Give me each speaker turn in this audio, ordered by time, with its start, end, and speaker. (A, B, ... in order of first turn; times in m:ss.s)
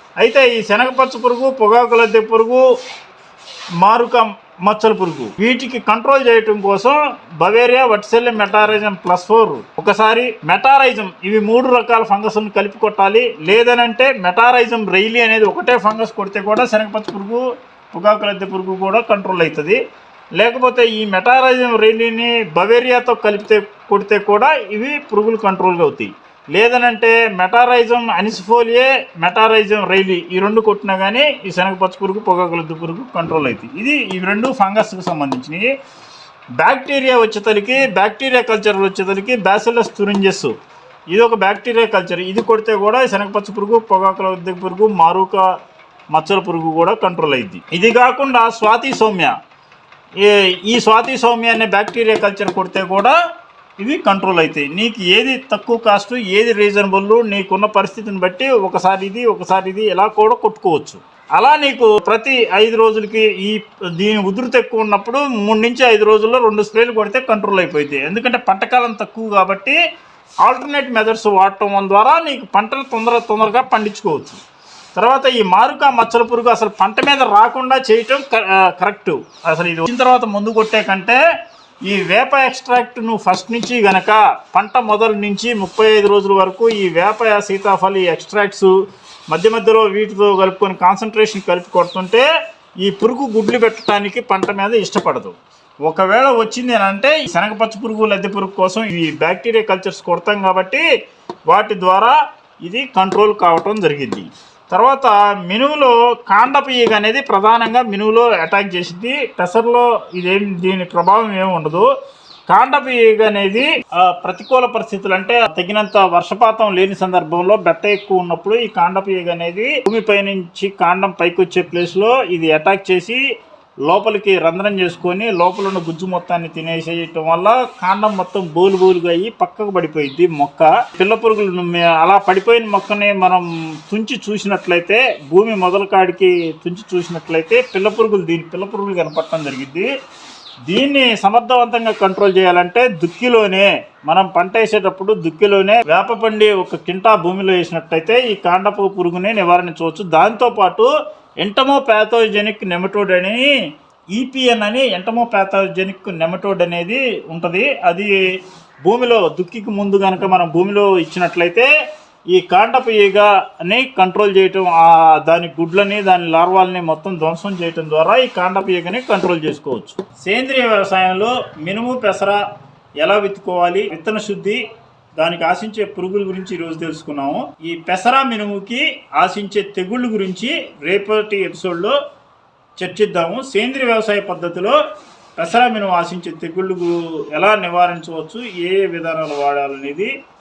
0:00.2-0:02.7 A
0:03.8-0:19.8 A
0:20.4-0:35.7 A
0:36.6-0:40.5 A
0:41.1-0:45.5 A
0:46.1-0:49.4 A
0:50.2-0:53.2 A
0:53.8-1:09.8 A
1:10.4-1:14.4 A
1:15.0-1:21.2 A
1:21.8-1:28.8 A
1:29.3-1:32.3 A
1:32.8-1:40.9 A
1:41.5-1:51.9 A
1:52.5-2:03.2 A
2:03.8-2:19.9 A
2:20.7-2:30.9 A
2:31.4-2:33.5 A
2:34.2-2:38.2 A
2:38.8-2:41.7 A
2:42.3-2:52.4 A
2:53.0-2:54.6 A
2:55.2-3:02.0 A
3:02.8-3:04.8 A
3:05.4-3:10.1 A